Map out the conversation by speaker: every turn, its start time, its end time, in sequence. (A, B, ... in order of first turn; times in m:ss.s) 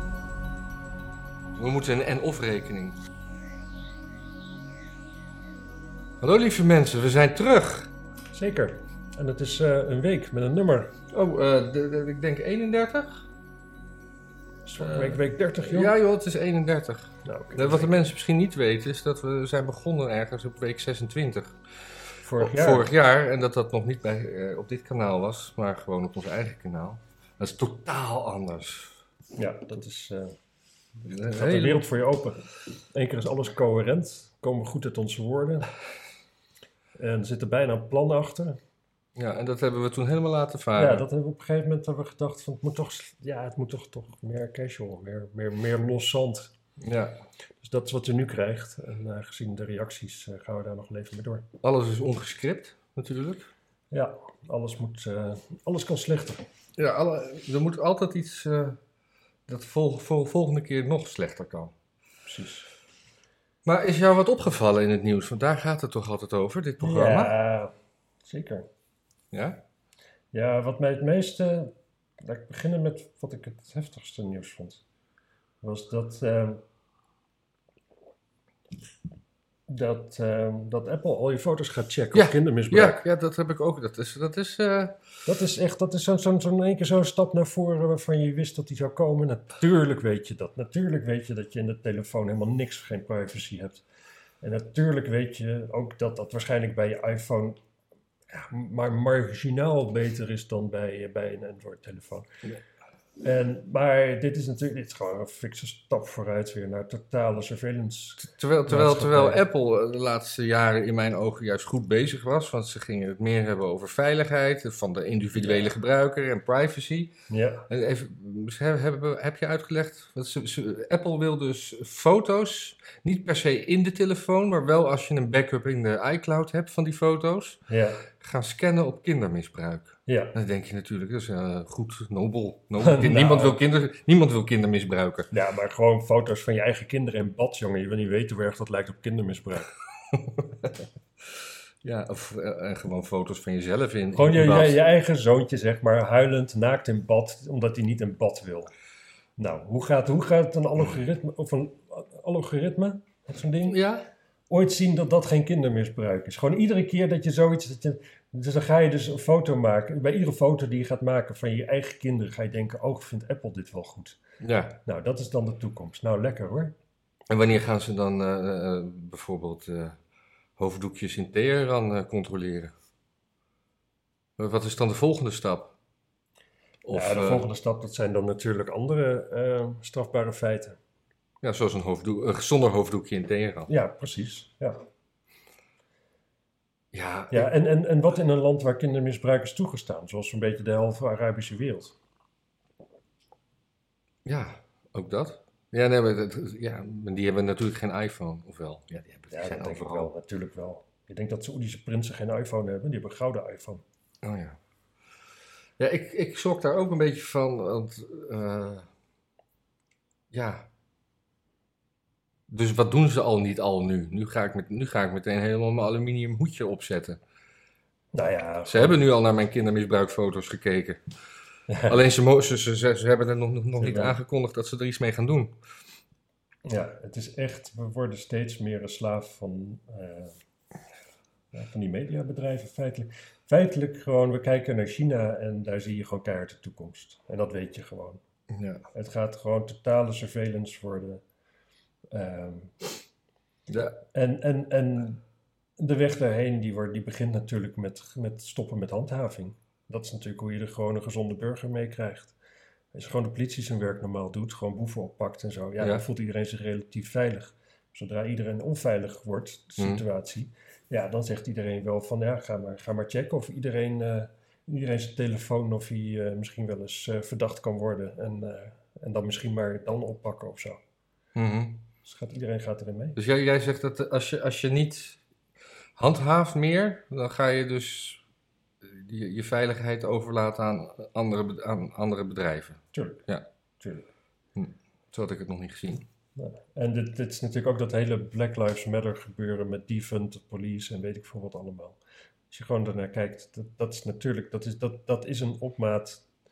0:01.6-0:03.0 A
0:06.2-0:07.9 A
0:08.3-0:10.9 B
0:11.1-0:13.3 A
0:14.6-0:15.9 B
0:14.8-0:21.6 A
0:17.2-0:17.9 B
0:22.2-0:22.9 B
0:22.4-0:29.0 A
0:29.3-0:30.4 B
0:31.0-0:31.8 A
0:31.3-0:35.7 B
0:37.0-0:38.6 B
0:39.2-0:41.0 A
0:40.8-0:46.5 B
0:46.8-0:47.2 A
0:47.6-0:51.5 B
0:51.6-0:53.5 A
0:53.9-0:56.4 B
0:56.8-0:58.8 A
0:59.5-1:01.7 A
1:02.2-1:02.7 B
1:03.6-1:07.3 A
1:06.8-1:07.7 B
1:08.2-1:08.7 B
1:09.3-1:09.6 A
1:10.3-1:14.8 B
1:15.6-1:16.6 B
1:19.7-1:23.0 B
1:22.1-1:25.0 A
1:25.2-1:33.8 B
1:34.4-1:37.6 B
1:38.3-1:42.3 B
1:43.2-1:49.4 B
1:48.2-1:57.1 A
1:55.4-1:55.7 B
1:57.3-1:57.7 B
1:57.7-2:07.6 A
2:07.7-2:08.0 B
2:08.2-2:15.3 A
2:10.1-2:10.3 B
2:12.8-2:13.6 B
2:15.3-2:19.7 B
2:20.1-2:20.7 A
2:21.8-2:24.8 A
2:24.1-2:28.7 B
2:29.4-2:33.8 B
2:33.6-2:34.0 A
2:34.5-2:44.2 B
2:44.4-2:44.8 A
2:44.8-2:46.7 B
2:47.3-2:50.0 A
2:50.6-2:52.7 A
2:54.4-2:55.7 A
2:56.8-2:57.5 A
2:56.9-3:00.8 B
3:01.4-3:03.7 A
3:03.7-3:04.8 B
3:06.9-3:07.5 A
3:07.3-3:12.0 B
3:14.2-3:20.1 A
3:19.3-3:23.8 B
3:24.2-3:24.6 A
3:25.8-3:28.9 A
3:30.3-3:30.7 A
3:32.5-3:37.2 A
3:38.1-3:39.0 B
3:38.6-3:41.0 A
3:41.7-3:42.0 B
3:41.9-3:45.5 A
3:43.8-3:44.2 B
3:46.6-3:50.3 B
3:51.5-3:58.2 B
3:58.5-3:58.8 A
3:58.9-4:01.2 B
4:02.1-4:02.7 B
4:03.7-4:04.0 A
4:04.1-4:05.2 B
4:05.8-4:12.4 B
4:12.9-4:30.8 B
4:31.3-4:31.8 A
4:32.0-4:33.2 B
4:33.2-4:35.2 A
4:36.0-4:38.2 A
4:38.8-4:43.4 A
4:42.9-4:43.2 B
4:43.8-4:44.1 B
4:44.6-4:46.1 A
4:46.4-4:52.0 B
4:52.5-4:56.2 B